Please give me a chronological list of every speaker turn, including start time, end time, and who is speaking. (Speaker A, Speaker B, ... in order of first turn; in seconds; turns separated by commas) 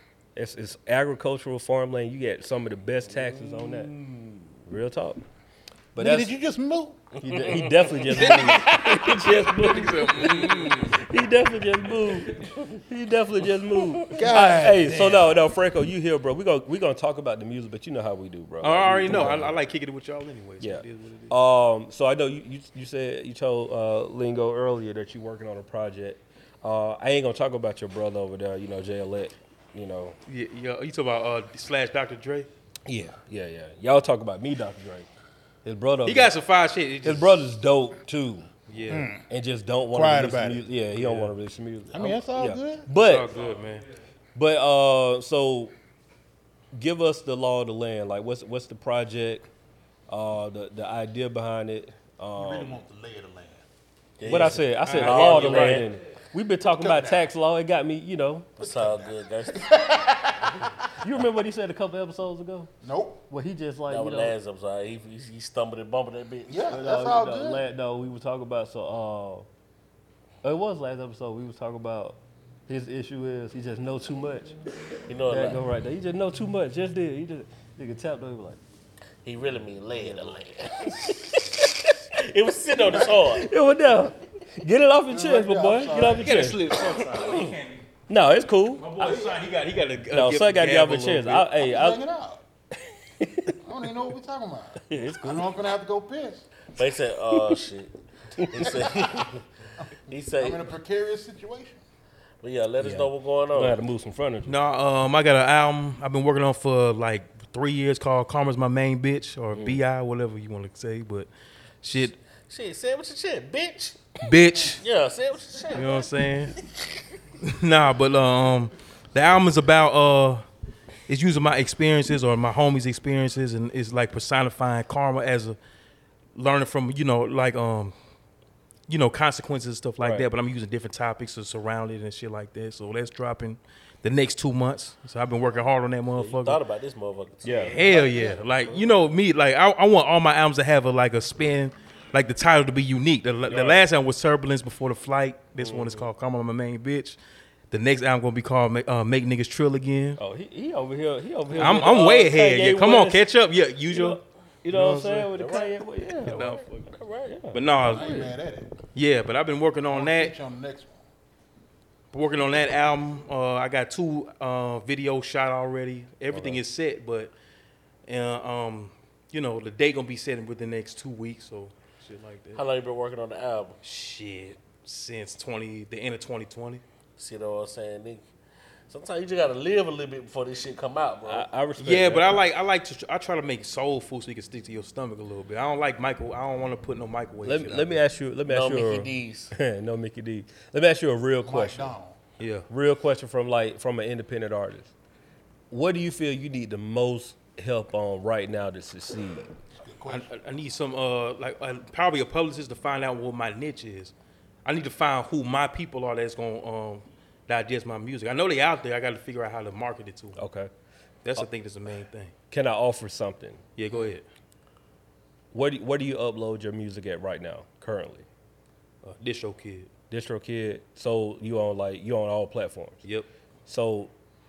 Speaker A: 0.4-3.9, Speaker B: 3.1-4.5, Speaker A: 4.7-5.2, Speaker A: 6.0-6.3, Speaker C: 6.0-7.0, Speaker A: 7.2-19.6, Speaker B: 7.2-10.9, Speaker D: 8.1-11.0, Speaker B: 12.4-12.7, Speaker B: 14.0-14.2, Speaker C: 14.1-15.4, Speaker D: 18.6-21.3, Speaker A: 20.6-30.2, Speaker D: 30.3-32.5, Speaker A: 32.9-35.1, Speaker A: 35.6-36.3, Speaker D: 36.0-37.5, Speaker A: 37.0-38.5, Speaker D: 38.7-39.1, Speaker C: 38.9-39.2, Speaker A: 39.3-43.3, Speaker C: 39.9-40.7, Speaker D: 40.9-41.4, Speaker C: 41.9-42.9, Speaker D: 43.0-43.9, Speaker A: 44.4-45.7, Speaker A: 46.7-49.5, Speaker A: 50.1-52.8, Speaker C: 52.4-53.6, Speaker B: 54.2-55.9, Speaker A: 54.2-58.5, Speaker D: 54.3-55.9, Speaker C: 56.8-57.2, Speaker B: 58.6-60.7, Speaker C: 58.6-60.7, Speaker A: 61.0-62.7, Speaker C: 62.8-63.2, Speaker A: 63.3-64.3, Speaker B: 63.9-66.9, Speaker C: 66.5-67.6, Speaker A: 66.7-69.5, Speaker A: 70.4-74.6, Speaker B: 75.1-75.6, Speaker A: 75.3-78.6, Speaker B: 79.2-81.2, Speaker A: 80.8-81.7, Speaker B: 82.2-83.5, Speaker A: 83.2-86.6, Speaker C: 85.2-86.2, Speaker D: 86.2-87.8, Speaker B: 86.7-87.5, Speaker A: 88.1-88.9, Speaker D: 88.8-91.5, Speaker C: 89.0-89.3, Speaker A: 90.1-92.0, Speaker C: 91.6-92.4, Speaker A: 93.2-93.6, Speaker C: 93.6-96.4, Speaker A: 94.9-95.4, Speaker B: 96.8-99.4, Speaker A: 98.4-98.9, Speaker B: 100.1-100.7, Speaker C: 100.4-101.8, Speaker B: 102.4-103.8, Speaker A: 102.8-104.6, Speaker D: 104.5-111.3, Speaker A: 109.5-109.8, Speaker D: 111.8-112.2, Speaker B: 112.5-114.0, Speaker D: 114.2-114.8, Speaker B: 114.7-117.0, Speaker D: 115.7-116.5, Speaker D: 117.4-120.5, Speaker D: 121.1-125.6, Speaker D: 126.3-128.0, Speaker D: 128.9-136.6, Speaker A: 130.0-130.3, Speaker B: 136.2-138.9, Speaker A: 137.4-137.8, Speaker D: 137.6-147.2, Speaker A: 143.5-143.8, Speaker D: 147.7-150.2, Speaker A: 150.2-153.2, Speaker D: 151.5-154.2, Speaker A: 153.9-156.4, Speaker D: 154.7-155.3, Speaker B: 155.3-157.4, Speaker D: 156.2-156.9, Speaker A: 157.3-158.3, Speaker D: 157.5-158.2, Speaker C: 157.8-158.7, Speaker D: 158.9-160.3, Speaker C: 159.9-161.0, Speaker D: 162.1-167.3, Speaker A: 166.3-166.6, Speaker D: 168.1-172.6, Speaker B: 172.6-173.8, Speaker D: 173.8-176.8, Speaker B: 177.2-178.2, Speaker B: 178.9-181.5, Speaker A: 181.3-182.4, Speaker D: 181.8-188.0, Speaker A: 187.4-191.9, Speaker B: 188.5-189.5, Speaker C: 191.4-192.2, Speaker D: 192.4-192.7, Speaker A: 192.7-194.9, Speaker A: 195.7-199.5, Speaker C: 199.8-200.3, Speaker D: 200.1-204.1, Speaker D: 204.7-210.4, Speaker A: 210.4-210.7, Speaker D: 211.2-212.3, Speaker A: 212.5-213.6, Speaker D: 213.8-214.2, Speaker A: 215.5-218.3, Speaker D: 219.0-219.9, Speaker A: 220.1-223.0, Speaker A: 223.7-224.1